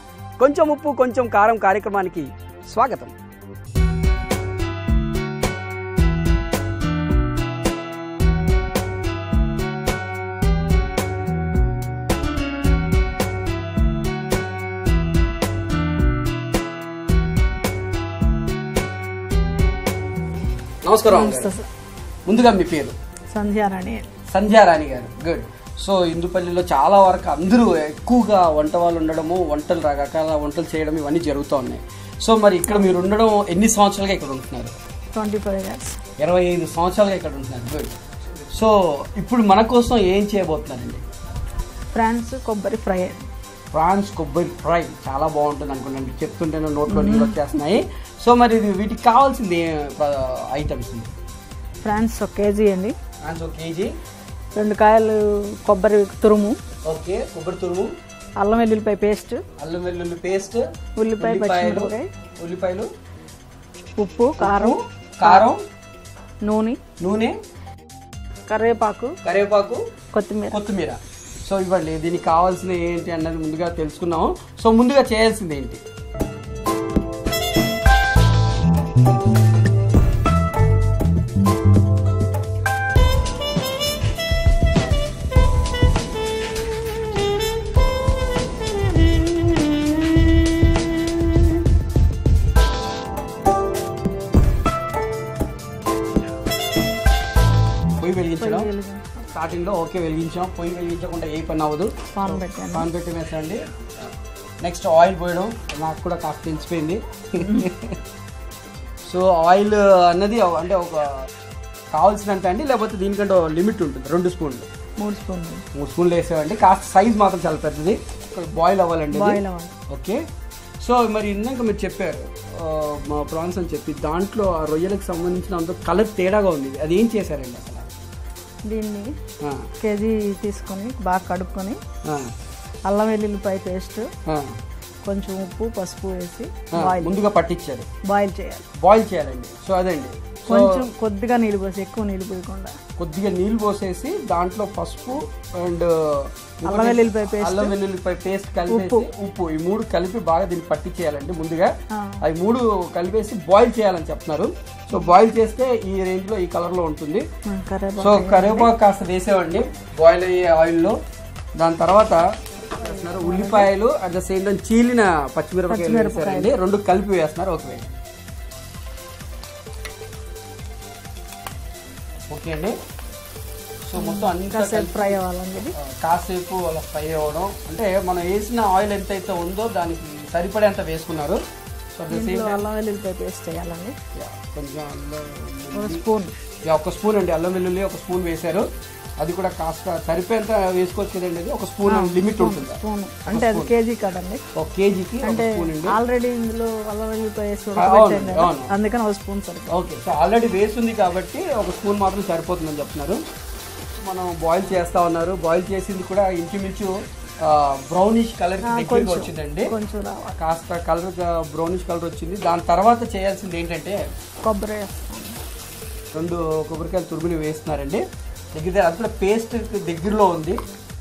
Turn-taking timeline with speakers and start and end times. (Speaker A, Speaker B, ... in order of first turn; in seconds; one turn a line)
Speaker A: 0.4-3.1
Speaker A: 20.8-21.5
Speaker B: 21.1-21.6
Speaker A: 22.3-22.9
Speaker B: 23.3-24.1
Speaker A: 24.3-34.7
Speaker B: 35.1-36.0
Speaker A: 36.2-37.9
Speaker A: 38.5-41.0
Speaker B: 41.9-43.2
Speaker A: 43.7-51.1
Speaker B: 46.9-47.5
Speaker B: 51.8-53.0
Speaker A: 53.2-53.9
Speaker B: 54.5-56.6
Speaker A: 56.9-57.9
Speaker B: 58.4-59.4
Speaker A: 59.6-60.6
Speaker B: 61.0-62.1
Speaker A: 61.2-62.9
Speaker B: 64.0-65.5
Speaker A: 64.4-65.6
Speaker B: 66.4-66.8
Speaker A: 67.0-67.3
Speaker B: 68.5-69.1
Speaker A: 69.2-69.8
Speaker B: 70.1-70.6
Speaker A: 70.5-75.8
Speaker A: 98.0-98.7
Speaker B: 98.4-99.1
Speaker A: 99.2-103.6
Speaker B: 102.1-102.9
Speaker A: 104.6-108.0
Speaker A: 109.0-111.2
Speaker A: 111.9-114.7
Speaker B: 115.0-115.6
Speaker A: 115.7-120.2
Speaker B: 119.1-119.8
Speaker A: 120.8-127.8
Speaker B: 128.6-129.1
Speaker A: 129.4-129.7
Speaker B: 129.8-131.8
Speaker A: 132.0-132.3
Speaker B: 132.8-134.1
Speaker A: 134.2-134.5
Speaker B: 135.0-137.2
Speaker A: 136.7-137.9
Speaker B: 138.1-138.6
Speaker A: 138.8-140.9
Speaker B: 140.5-142.7
Speaker A: 143.0-151.7
Speaker B: 146.7-147.7
Speaker B: 148.7-149.1
Speaker A: 152.2-157.2
Speaker B: 157.4-158.7
Speaker A: 158.0-160.9
Speaker A: 161.6-162.2
Speaker B: 162.7-163.7
Speaker A: 162.8-167.8
Speaker B: 165.7-166.5
Speaker A: 172.3-172.8
Speaker A: 173.9-175.2
Speaker B: 174.0-175.7
Speaker A: 175.8-181.4
Speaker A: 181.9-182.6
Speaker B: 182.1-183.9
Speaker A: 184.2-186.0
Speaker B: 185.7-186.3
Speaker A: 186.6-188.6
Speaker A: 189.2-193.7
Speaker B: 191.8-194.4
Speaker A: 194.6-196.0
Speaker B: 195.2-199.7
Speaker A: 197.8-198.7
Speaker A: 199.7-203.2
Speaker A: 204.0-206.9
Speaker A: 207.4-209.7
Speaker B: 208.6-210.4
Speaker A: 210.4-214.0
Speaker B: 214.4-215.4
Speaker A: 216.1-218.0
Speaker A: 218.5-220.6